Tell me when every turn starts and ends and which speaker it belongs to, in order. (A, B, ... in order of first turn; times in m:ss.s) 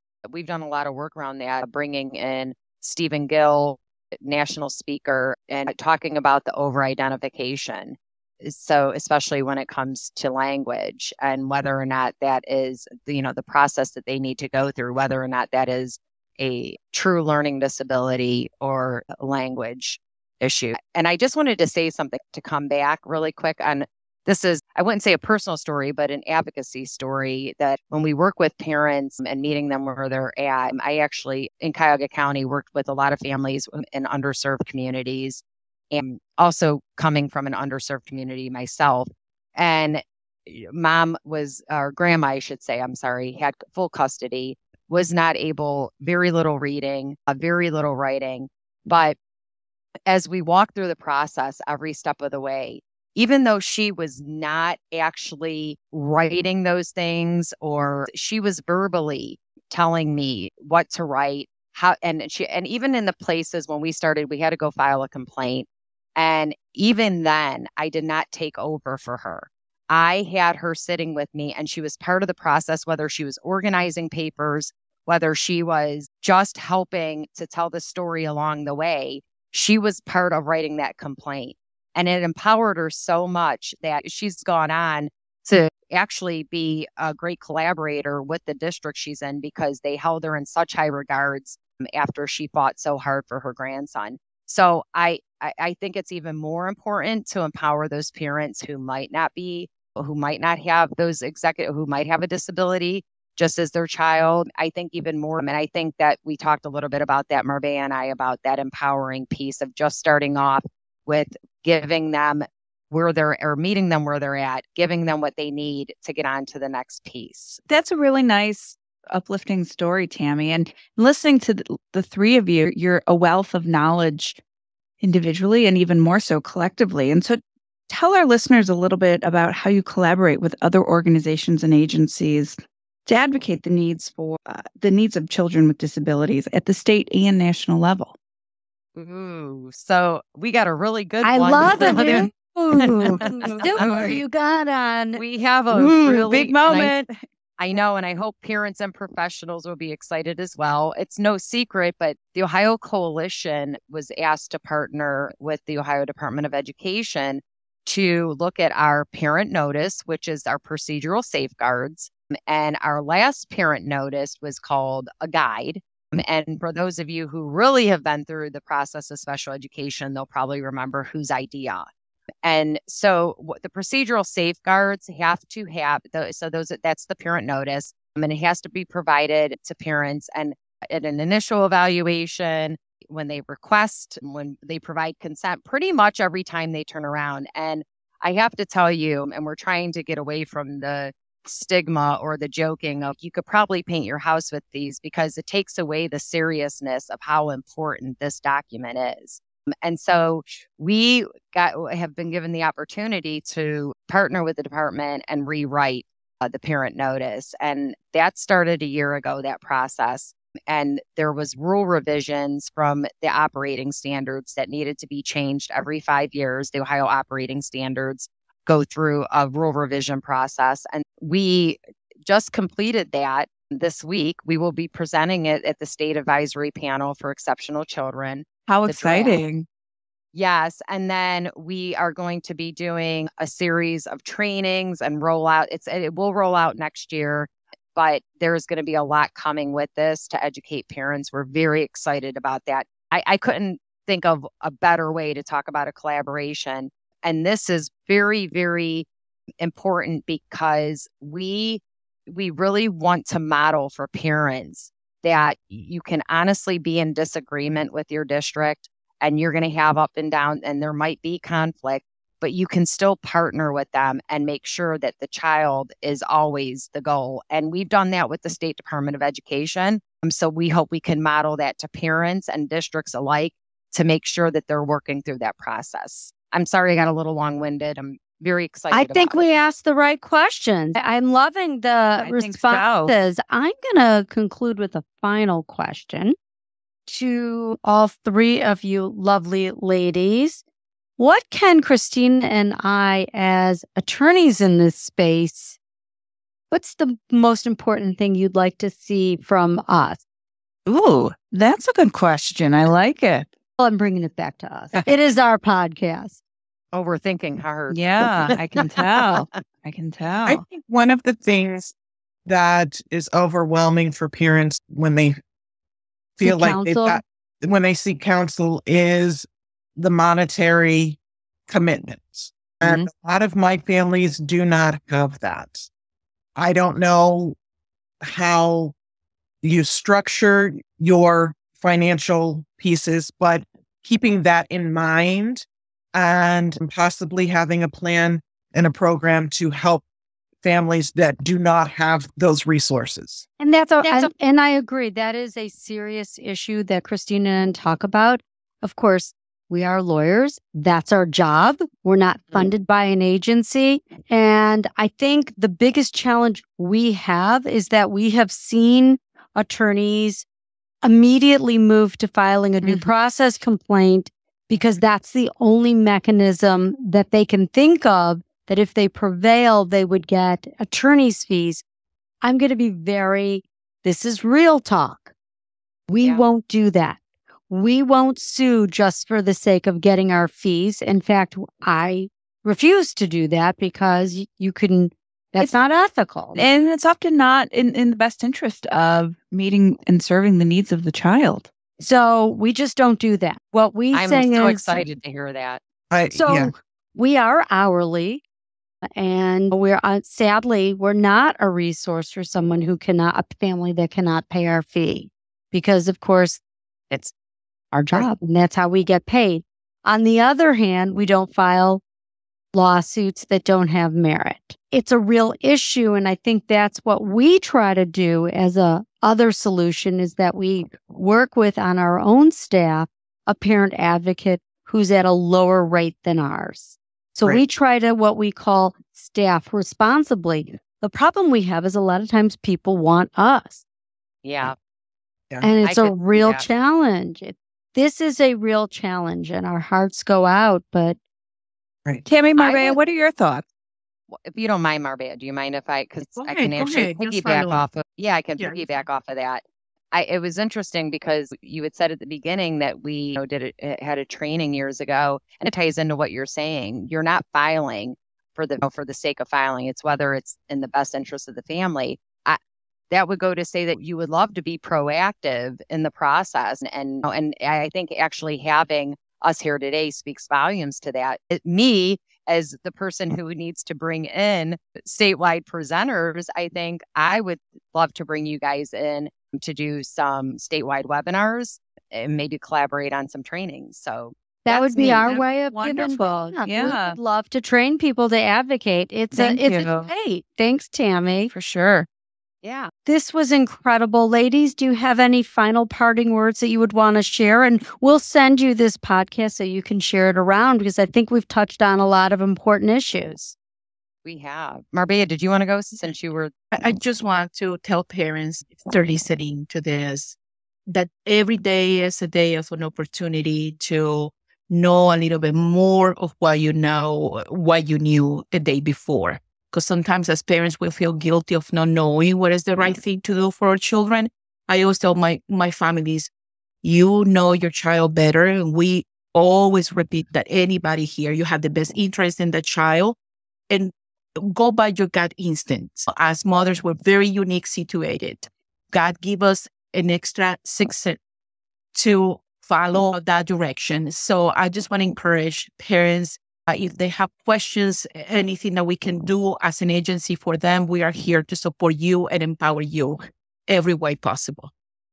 0:00.2-0:49.2 A
0:50.1-1:57.6 A
1:57.7-2:04.4 B
2:05.0-2:18.1 B
2:18.9-2:22.3 A
2:21.2-2:25.2 C
2:22.9-2:24.2 A
2:23.1-2:23.9 B
2:25.2-2:26.9 A
2:25.7-2:27.2 B
2:27.6-2:51.9 A
2:52.4-3:49.4 A
3:48.7-3:49.6 B
3:50.3-4:09.1 A
4:09.6-4:39.4 A
4:38.9-4:46.3 C
4:42.2-4:43.1 B
4:47.1-4:50.6 C
4:51.2-4:55.8 C
4:56.7-5:00.2 C
5:00.9-5:03.5 B
5:03.8-5:06.4 C
5:06.9-5:09.4 A
5:07.9-5:10.6 B
5:10.4-5:11.9 D
5:12.4-5:15.4 D
5:16.4-5:25.9 D
5:16.4-5:17.2 C
5:26.6-5:27.6 D
5:28.2-5:28.9 D
5:29.6-5:40.0 D
5:40.6-5:43.4 D
5:43.6-6:00.4 C
5:44.0-5:44.3 A
6:01.0-6:11.8 C
6:02.8-6:03.1 B
6:12.4-6:15.3 C
6:16.1-6:17.2 C
6:17.7-6:26.6 C
6:26.5-6:31.7 B
6:32.0-6:35.0 C
6:34.1-6:35.8 A
6:36.1-6:36.7 D
6:36.3-6:38.4 C
6:39.2-6:47.3 C
6:47.9-6:52.0 C
6:52.7-7:13.8 C
7:14.4-7:14.7 A
7:15.6-7:21.2 C
7:15.8-7:16.6 A
7:22.2-7:23.6 B
7:22.6-7:23.0 A
7:24.3-7:42.6 A
7:26.3-7:27.8 E
7:28.6-7:28.8 E
7:43.1-8:05.4 A
8:04.6-8:11.5 C
8:05.0-8:07.2 B
8:09.3-8:10.1 B
8:11.5-8:12.1 B
8:12.6-8:12.9 A
8:13.0-8:23.5 C
8:24.2-8:26.5 A
8:26.7-8:30.4 E
8:30.9-8:46.3 E
8:46.8-8:53.2 E
8:53.7-9:01.2 E
9:01.9-9:14.7 E